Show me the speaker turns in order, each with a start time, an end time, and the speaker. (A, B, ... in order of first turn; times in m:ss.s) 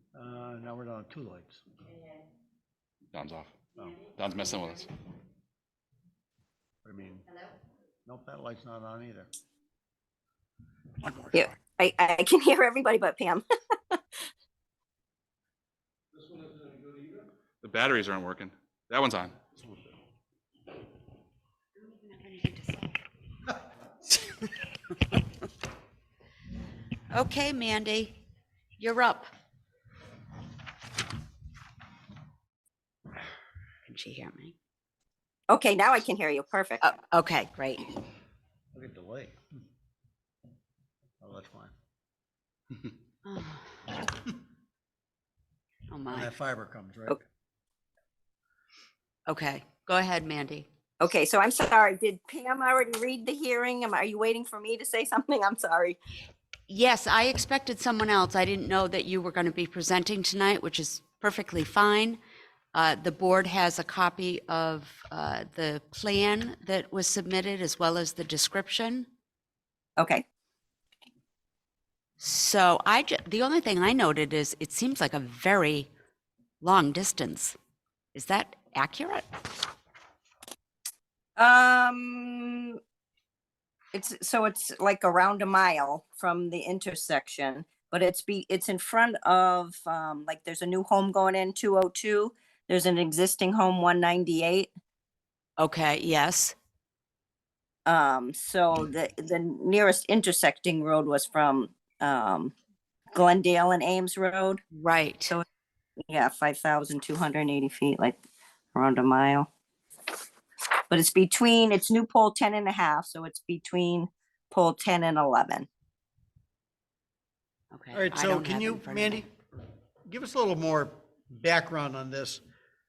0:00.2-0:01.6 A
0:03.1-0:04.9 B
0:03.8-0:04.1 A
0:06.8-0:07.3 A
0:08.0-0:09.3 A
0:11.0-0:11.5 A
0:11.3-0:14.0 C
0:17.6-0:19.4 B
0:21.8-0:23.0 D
0:27.1-0:28.2 D
0:28.8-0:29.3 D
0:33.9-0:34.5 D
0:35.5-0:36.8 C
0:36.8-0:37.9 D
0:38.7-0:39.4 A
0:41.2-0:41.7 A
0:43.2-0:44.0 D
0:45.9-0:46.3 D
0:46.1-0:47.2 A
0:49.3-0:50.7 D
0:51.0-0:56.0 C
0:56.7-1:02.2 D
1:02.7-1:09.1 D
1:10.0-1:10.2 C
1:12.2-1:15.9 D
1:16.6-1:17.6 D
1:18.1-1:19.2 D
1:21.4-1:22.8 C
1:23.9-1:34.7 C
1:35.6-1:36.6 D
1:37.9-1:42.5 C
1:43.1-1:44.6 C
1:44.7-1:45.4 D
1:46.1-1:48.2 C
1:48.8-1:49.5 C
1:50.9-1:55.7 C
1:57.7-1:59.3 D
1:57.9-1:59.3 A
2:00.1-2:02.4 A